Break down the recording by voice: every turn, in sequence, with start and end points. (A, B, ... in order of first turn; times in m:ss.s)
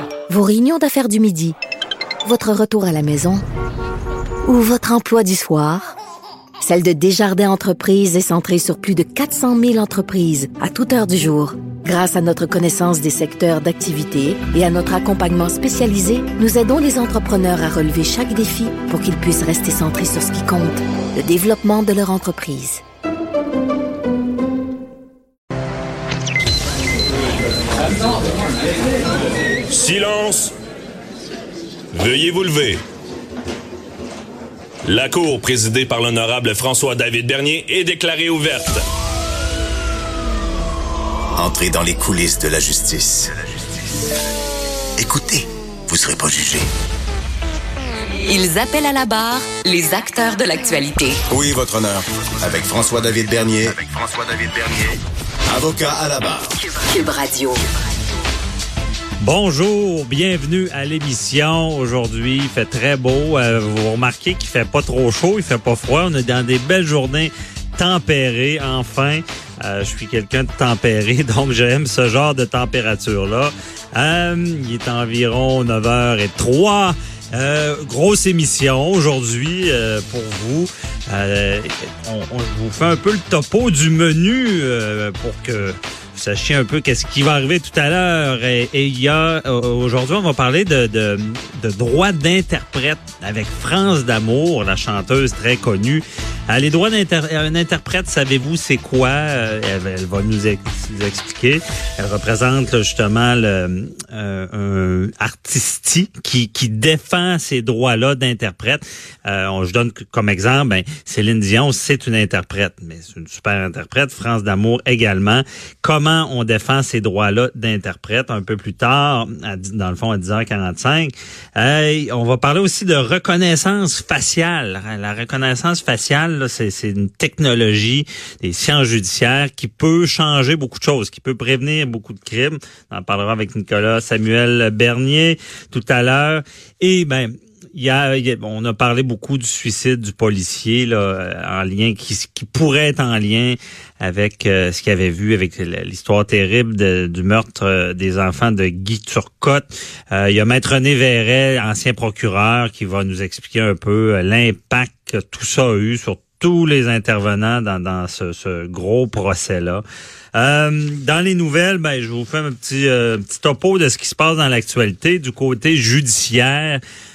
0:00.3-0:01.6 A
0:02.2-0:03.4 A
0:04.4-0:06.0 A
0:06.6-0:22.8 A
0:29.7-0:30.5 B
0:31.9-0:32.8 B
0:34.8-0:38.8 B
0:41.4-0:43.7 C
0:45.0-0:46.7 C
0:48.2-0:51.2 D
0:51.3-0:56.6 C
0:56.8-0:57.4 D
0:59.2-2:39.8 E
2:40.3-2:46.8 E